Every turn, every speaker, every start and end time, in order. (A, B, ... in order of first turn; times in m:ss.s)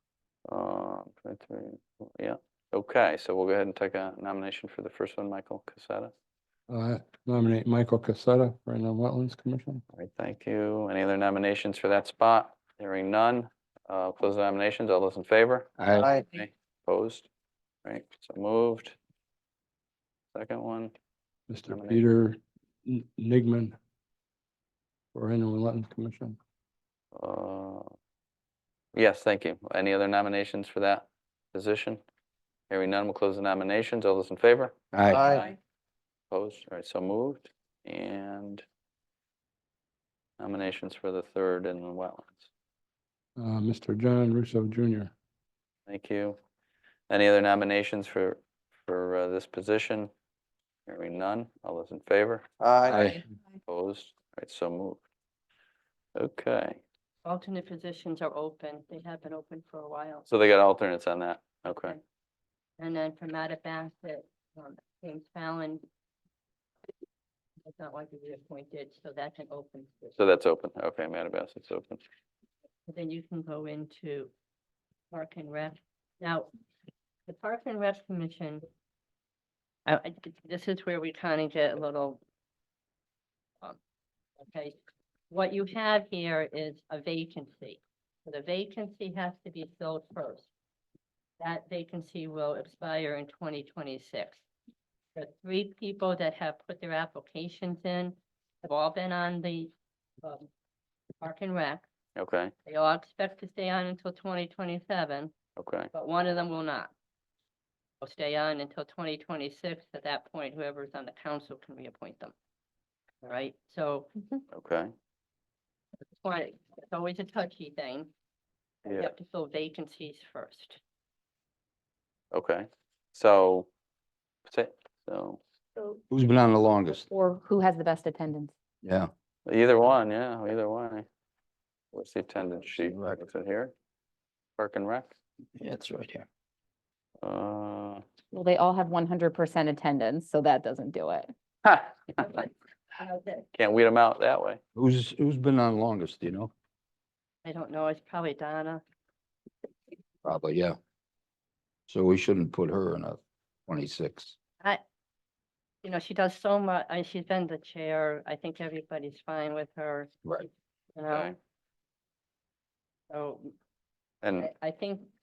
0:00.5-0:06.1 A
0:06.7-0:09.8 B
0:09.9-0:17.3 A
0:15.8-0:16.1 C
0:16.0-0:16.3 D
0:17.8-0:19.0 A
0:20.3-0:20.9 A
0:21.5-0:23.8 B
0:21.7-0:22.0 A
0:25.1-0:26.4 B
0:27.1-0:27.9 A
0:28.9-0:32.0 A
0:32.7-0:35.6 A
0:34.9-0:35.3 C
0:35.1-0:35.5 D
0:36.3-0:38.6 A
0:40.4-0:42.5 A
0:43.4-0:45.1 B
0:45.9-0:46.4 A
0:47.1-0:50.1 A
0:50.9-0:52.4 A
0:52.6-0:53.0 D
0:52.9-0:53.2 C
0:53.7-0:55.0 A
0:56.2-0:56.8 A
0:57.2-1:00.3 E
1:00.3-1:02.0 A
1:01.7-1:02.0 E
1:02.8-1:05.8 E
1:07.7-1:10.2 E
1:10.2-1:12.0 A
1:12.9-1:14.3 E
1:15.1-1:16.5 E
1:17.3-1:18.6 E
1:19.9-1:22.2 E
1:24.4-1:24.8 E
1:25.3-1:30.5 E
1:31.4-1:34.4 E
1:35.2-1:39.7 E
1:40.2-1:40.5 E
1:41.2-1:41.9 E
1:42.2-1:42.5 A
1:42.7-1:45.3 E
1:45.6-1:45.9 A
1:45.9-1:46.9 E
1:48.0-1:52.3 E
1:53.2-1:54.4 E
1:54.5-1:54.9 A
1:56.2-1:58.1 E
1:58.8-1:59.1 A
1:58.9-2:00.8 E
2:02.3-2:03.7 A
2:04.5-2:05.4 A
2:06.1-2:07.1 C
2:07.0-2:08.5 D
2:08.8-2:09.1 C
2:09.5-2:11.1 A
2:11.9-2:13.7 A
2:12.8-2:13.2 C
2:14.6-2:15.1 A
2:15.6-2:16.3 C
2:17.2-2:18.0 A
2:18.3-2:21.3 D
2:21.6-2:22.2 A
2:22.2-2:23.5 E
2:23.6-2:24.6 A
2:24.8-2:26.5 C
2:27.4-2:28.8 E
2:30.2-2:30.8 C
2:31.9-2:34.4 C
2:35.8-2:40.3 E
2:41.0-2:41.3 E
2:41.1-2:41.4 A
2:43.1-2:43.5 E
2:44.2-2:44.5 A
2:44.4-2:45.1 E